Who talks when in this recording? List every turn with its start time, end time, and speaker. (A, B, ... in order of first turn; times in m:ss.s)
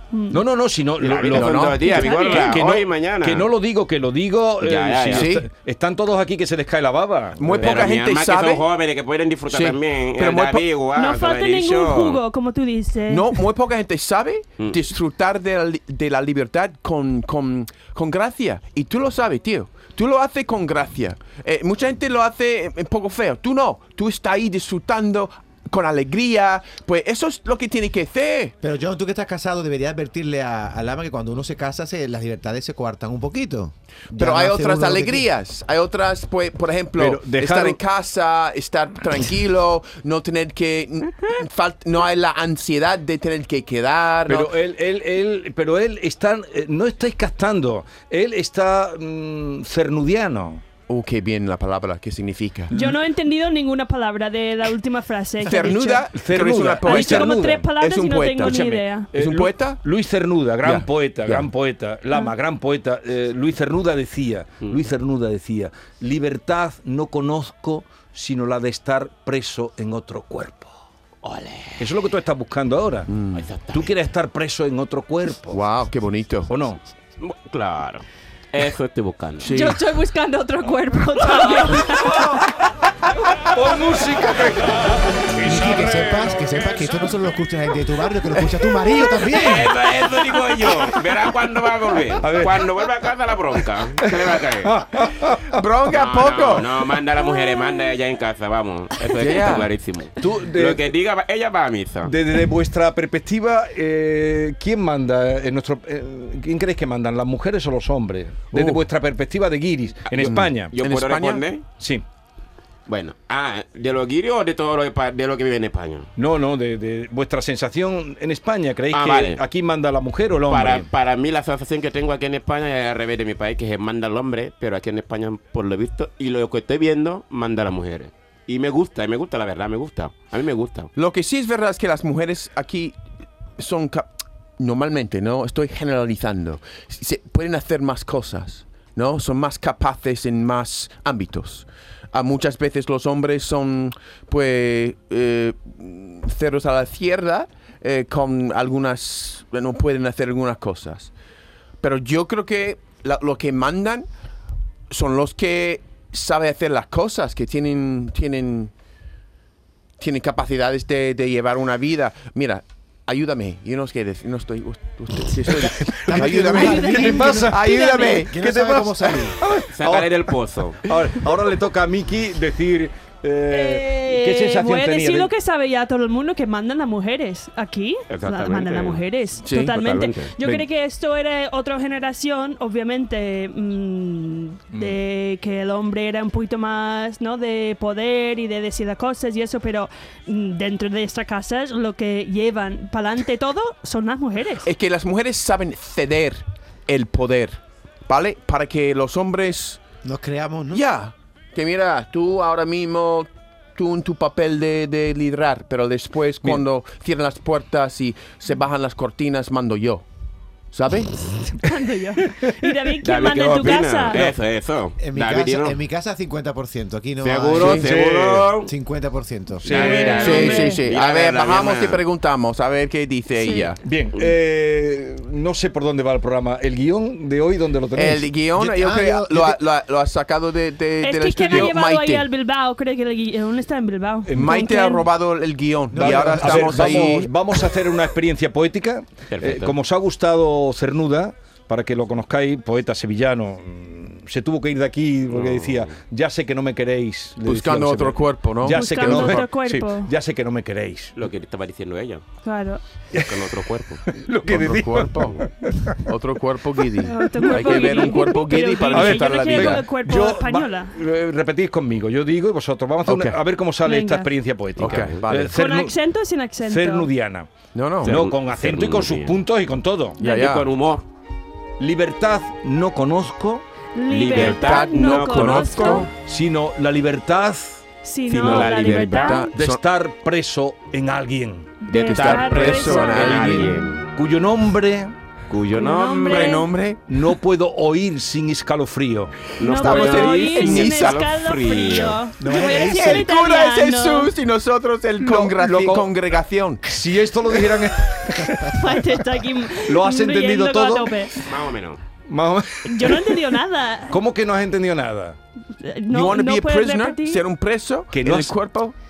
0:00.1-0:00.4 A
0:00.3-0:07.8 B
0:01.0-0:03.5 C
0:01.1-0:02.2 D
0:01.8-0:02.5 A
0:04.6-0:05.3 C
0:05.1-0:05.4 D
0:07.4-0:08.6 D
0:07.5-0:12.2 C
0:09.5-0:10.7 D
0:11.0-0:13.4 A
0:13.1-0:28.6 D
0:28.6-0:35.3 E
0:34.1-0:44.5 D
0:37.0-0:37.8 B
0:44.3-0:50.6 B
0:50.9-0:52.7 D
0:52.7-0:56.1 A
0:55.4-0:59.8 D
0:56.1-0:57.7 B
0:56.8-0:59.1 A
0:58.5-1:10.7 B
1:00.6-1:01.5 D
1:11.2-1:11.8 C
1:11.8-1:13.1 B
1:13.1-1:13.5 D
1:13.3-1:13.9 C
1:13.7-1:15.6 B
1:15.5-1:16.5 D
1:16.5-1:16.8 B
1:17.2-1:19.5 C
1:19.4-1:19.8 D
1:19.5-1:22.2 A
1:21.3-1:22.4 B
1:23.5-1:26.3 B
1:25.4-1:29.7 E
1:29.2-1:34.8 C
1:32.2-1:32.7 B
1:34.0-1:35.6 B
1:35.5-1:36.7 D
1:35.9-1:42.1 C
1:39.2-1:39.7 D
1:40.2-1:40.8 B
1:42.0-1:50.7 B
1:48.5-1:48.8 D
1:50.2-1:51.4 D
1:50.7-1:51.6 C
1:51.8-1:52.0 B
1:52.9-1:56.1 C
1:56.2-2:00.9 B
1:58.9-1:59.4 C
2:00.5-2:10.9 C
2:11.0-2:13.0 D
2:13.6-2:31.1 D
2:31.8-2:34.1 D
2:34.9-2:38.7 D
2:40.0-2:48.4 D
2:46.0-2:49.4 E
2:46.0-2:50.3 B
2:46.7-2:47.3 A
2:49.7-2:50.8 C
2:50.8-2:55.3 B
2:53.5-3:14.7 A
2:58.1-3:00.3 C
2:59.5-2:59.7 D
3:14.6-3:19.8 D
3:20.0-3:20.8 E
3:20.7-3:30.0 D
3:30.7-3:31.1 D
3:31.5-3:34.2 A
3:33.0-3:35.8 C
3:35.0-3:37.8 E
3:37.2-3:38.7 C
3:37.6-3:37.8 D
3:37.6-3:38.5 B
3:38.7-3:39.8 E
3:39.6-3:40.7 B
3:39.7-3:42.0 C
3:39.8-3:43.8 D
3:39.9-3:40.8 A
3:43.4-3:43.7 A
3:43.8-3:48.3 B
3:48.0-3:52.3 D
3:48.6-3:49.6 E
3:51.0-3:55.1 A
3:54.3-3:57.3 D
3:55.9-3:57.2 E
3:56.0-4:11.1 B
3:59.3-3:59.8 C
4:05.3-4:05.9 C
4:07.4-4:09.5 D
4:08.7-4:10.1 A
4:11.2-4:12.2 C
4:12.4-4:12.8 A
4:13.2-4:14.0 C
4:14.1-4:16.0 B
4:14.5-4:15.5 D
4:16.0-4:19.8 D
4:17.0-4:21.0 A
4:17.4-4:18.1 B
4:18.9-4:25.9 B
4:23.1-4:23.4 D
4:23.8-4:24.3 A
4:24.8-4:25.2 C
4:24.8-4:25.6 D
4:25.5-4:27.1 A
4:26.6-4:27.5 B
4:27.7-4:28.2 D
4:28.0-4:30.2 B
4:28.0-4:29.4 C
4:30.2-4:30.7 D
4:30.2-4:31.0 C
4:31.8-4:33.6 B
4:34.0-4:36.1 A
4:34.1-4:36.1 C
4:34.3-4:36.1 D
4:36.2-4:37.8 B
4:38.0-4:39.5 A
4:38.3-4:39.4 C
4:38.5-4:39.8 D
4:39.5-4:41.7 B
4:41.8-4:43.7 A
4:41.9-4:44.0 C
4:41.9-4:43.8 D
4:44.2-4:45.2 B
4:45.5-4:46.7 C
4:45.8-4:46.7 A
4:46.2-4:47.0 D
4:47.1-4:49.3 B
4:49.6-4:52.2 C
4:49.6-4:51.3 D
4:49.6-4:54.3 A
4:52.4-4:53.2 E
4:52.6-4:56.8 D
4:55.3-4:56.1 B
4:56.9-4:58.7 B
4:58.7-5:01.4 A
4:59.8-5:01.1 B
5:01.5-5:02.0 C
5:02.3-5:03.4 B
5:02.9-5:04.2 A
5:04.1-5:05.4 B
5:05.8-5:07.4 A
5:06.1-5:09.0 D
5:08.1-5:08.5 B